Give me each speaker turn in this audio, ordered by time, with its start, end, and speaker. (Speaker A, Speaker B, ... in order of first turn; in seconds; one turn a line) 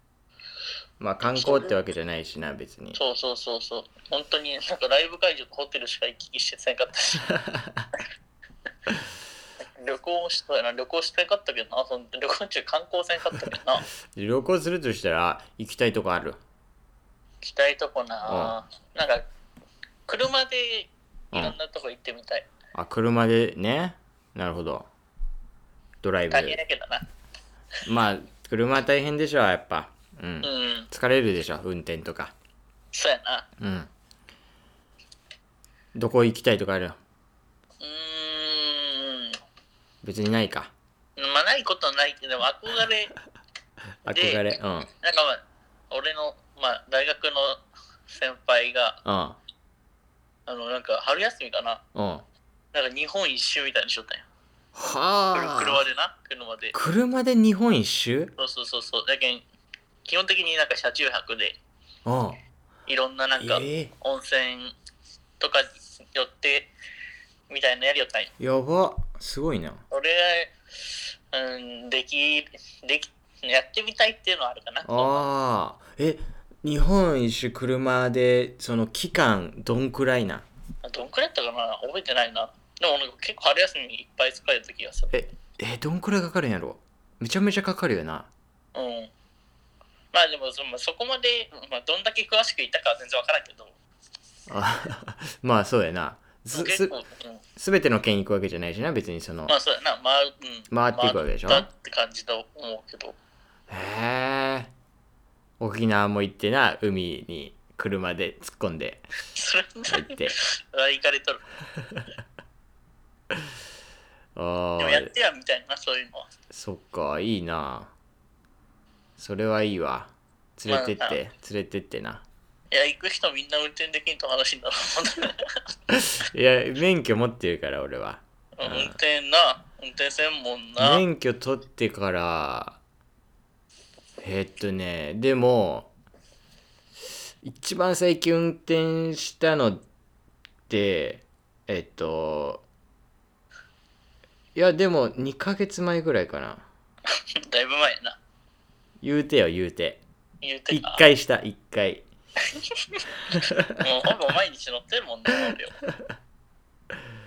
Speaker A: 1.0-3.0
Speaker B: 1.2-1.7
Speaker B: 3.0-7.3
Speaker A: 7.3-7.8
Speaker B: 9.8-13.9
Speaker A: 14.1-16.4
Speaker B: 17.4-19.2
Speaker A: 18.2-18.6
Speaker B: 20.1-22.5
Speaker A: 21.3-21.6
Speaker A: 22.7-24.9
Speaker A: 26.0-26.6
Speaker B: 26.3-27.0
Speaker A: 27.9-32.3
Speaker B: 30.4-30.9
Speaker B: 32.9-33.5
Speaker A: 33.6-33.9
Speaker A: 36.0-37.0
Speaker B: 37.8-39.4
Speaker A: 40.0-40.7
Speaker B: 41.2-43.1
Speaker A: 44.0-44.9
Speaker B: 44.1-44.5
Speaker B: 45.0-49.0
Speaker A: 49.0-49.4
Speaker B: 50.5-51.8
Speaker A: 52.0-52.2
Speaker B: 52.7-54.2
Speaker A: 54.8-55.8
Speaker B: 55.3-56.8
Speaker A: 56.7-58.3
Speaker B: 58.4-59.5
Speaker B: 60.1-61.6
Speaker A: 62.1-62.4
Speaker B: 62.9-64.8
Speaker A: 63.4-63.9
Speaker B: 65.4-66.7
Speaker B: 67.5-68.3
Speaker A: 68.4-69.8
Speaker B: 69.9-75.2
Speaker A: 74.9-80.5
Speaker B: 80.8-85.1
Speaker A: 85.1-88.3
Speaker B: 88.8-89.1
Speaker B: 90.1-93.8
Speaker A: 94.5-96.9
Speaker B: 96.5-97.4
Speaker A: 97.6-99.5
Speaker B: 99.5-103.2
Speaker A: 100.7-101.7
Speaker A: 103.7-104.7
Speaker A: 105.6-109.1
Speaker B: 109.3-111.4
Speaker A: 109.9-110.3
Speaker A: 114.4-115.1
Speaker B: 114.8-116.3
Speaker A: 116.5-117.9
Speaker A: 119.2-122.2
Speaker B: 120.7-121.2
Speaker B: 122.7-125.4
Speaker A: 125.9-129.0
Speaker B: 128.6-131.0
Speaker A: 130.8-132.8
Speaker A: 134.2-135.9
Speaker A: 137.4-139.8
Speaker A: 140.7-142.7
Speaker A: 144.6-146.7
Speaker B: 147.2-148.2
Speaker A: 149.0-150.0
Speaker B: 150.4-151.1
Speaker A: 150.7-152.1
Speaker B: 153.8-155.7